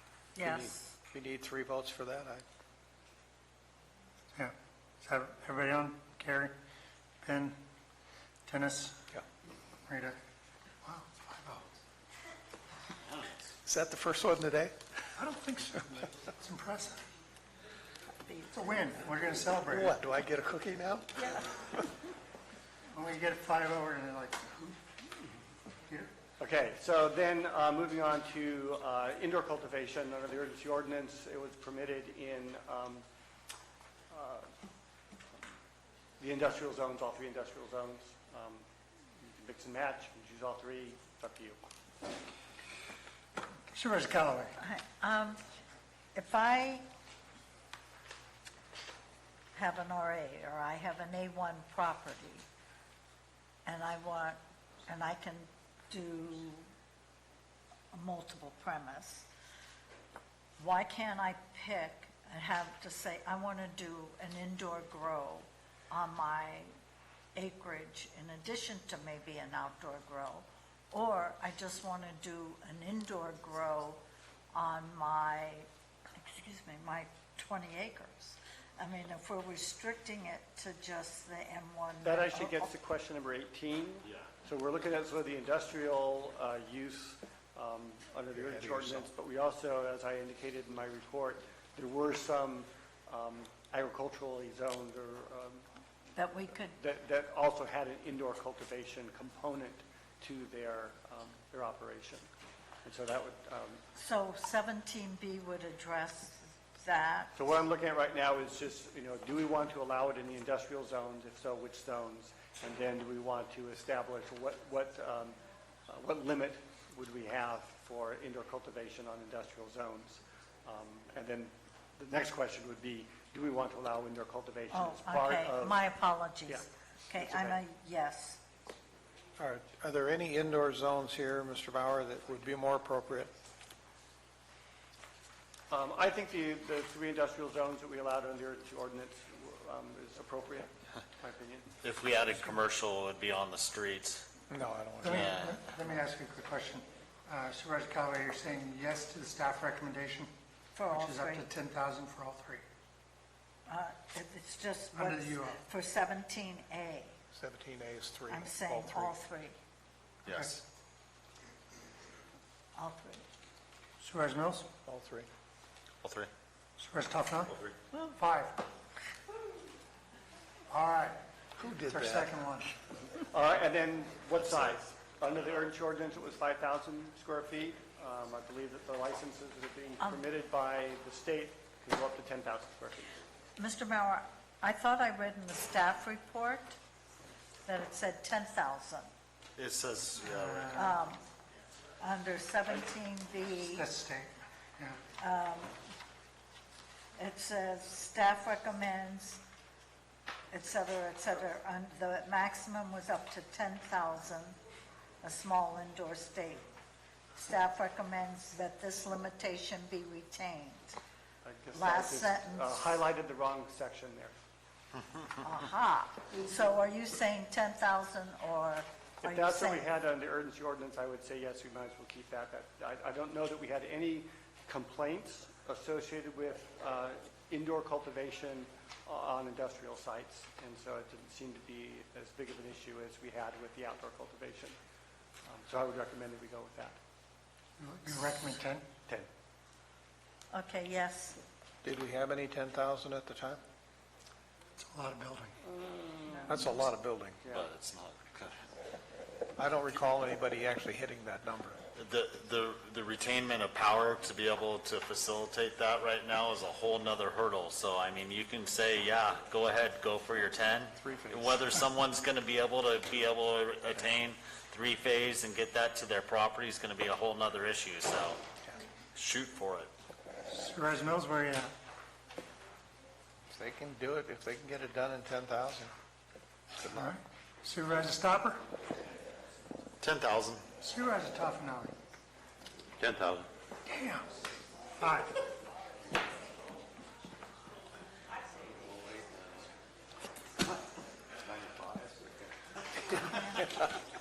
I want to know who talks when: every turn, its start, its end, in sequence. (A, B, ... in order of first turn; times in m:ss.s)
0:00.4-0:01.0 A
0:00.4-0:00.8 B
0:01.1-0:02.4 C
0:04.3-0:06.5 D
0:07.2-0:07.6 D
0:08.5-0:09.0 D
0:09.9-0:10.2 D
0:10.8-0:11.7 D
0:13.6-0:14.7 C
0:15.2-0:17.0 D
0:18.2-0:18.6 A
0:18.5-0:20.0 D
0:19.7-0:21.8 C
0:22.9-0:24.8 D
0:26.4-0:33.0 B
0:34.1-0:34.5 B
0:36.2-0:38.6 B
0:39.2-0:41.6 B
0:43.7-0:44.6 D
0:44.6-0:45.4 A
0:46.1-0:46.8 A
0:49.5-0:52.4 A
0:53.6-0:56.6 A
0:57.9-0:59.3 A
1:00.6-1:06.7 A
1:07.3-1:14.0 A
1:14.5-1:22.7 A
1:22.0-1:35.6 B
1:28.3-1:29.1 C
1:36.2-1:36.7 A
1:36.5-1:42.3 B
1:42.8-1:43.8 B
1:44.0-1:47.3 A
1:47.4-1:55.4 B
1:55.9-2:05.8 B
2:04.7-2:08.4 A
2:06.5-2:07.6 B
2:09.4-2:13.3 C
2:15.7-2:21.7 B
2:21.8-2:24.2 E
2:24.5-2:25.4 C
2:25.0-2:30.3 D
2:25.0-2:25.6 E
2:30.7-2:31.5 A
2:30.9-2:32.6 D
2:33.7-2:37.2 A
2:34.9-2:35.6 D
2:37.3-2:39.1 C
2:38.3-2:39.6 A
2:40.2-2:40.6 E
2:40.3-2:40.6 D
2:42.8-2:43.2 A
2:44.0-2:44.7 D
2:44.8-2:45.3 C
2:46.0-2:46.3 E
2:46.8-2:47.6 D
2:48.1-2:48.6 D
2:50.7-2:51.2 D
2:51.6-2:52.3 C
2:51.9-2:52.8 D
2:53.1-3:03.1 B
3:03.6-3:06.8 A
3:07.6-3:09.1 A
3:09.6-3:10.8 E
3:10.2-3:11.0 D
3:10.7-3:11.2 A
3:12.0-3:13.9 A
3:13.7-3:15.0 D
3:15.2-3:15.8 A
3:17.2-3:19.4 A
3:20.5-3:24.6 A
3:25.2-3:26.6 A
3:27.4-3:31.0 A
3:31.4-3:34.3 B
3:31.7-3:33.0 A
3:35.4-3:39.9 A
3:39.2-3:54.8 B
3:55.4-3:57.0 B
3:57.8-3:58.8 D
4:00.5-4:01.4 A
4:01.8-4:03.6 C
4:04.8-4:05.6 D
4:05.6-4:06.7 B
4:06.3-4:06.6 A
4:06.5-4:07.4 C
4:07.4-4:07.7 B
4:07.5-4:08.6 E
4:09.6-4:11.8 C
4:12.0-4:28.4 E
4:21.0-4:21.6 C
4:29.1-4:29.9 E
4:30.5-4:31.7 D
4:33.5-4:35.9 C
4:36.8-4:38.6 D
4:40.0-4:40.6 E
4:40.8-4:41.9 D
4:43.0-4:43.4 E
4:43.9-4:44.2 D
4:45.0-4:45.4 D
4:53.6-4:53.9 C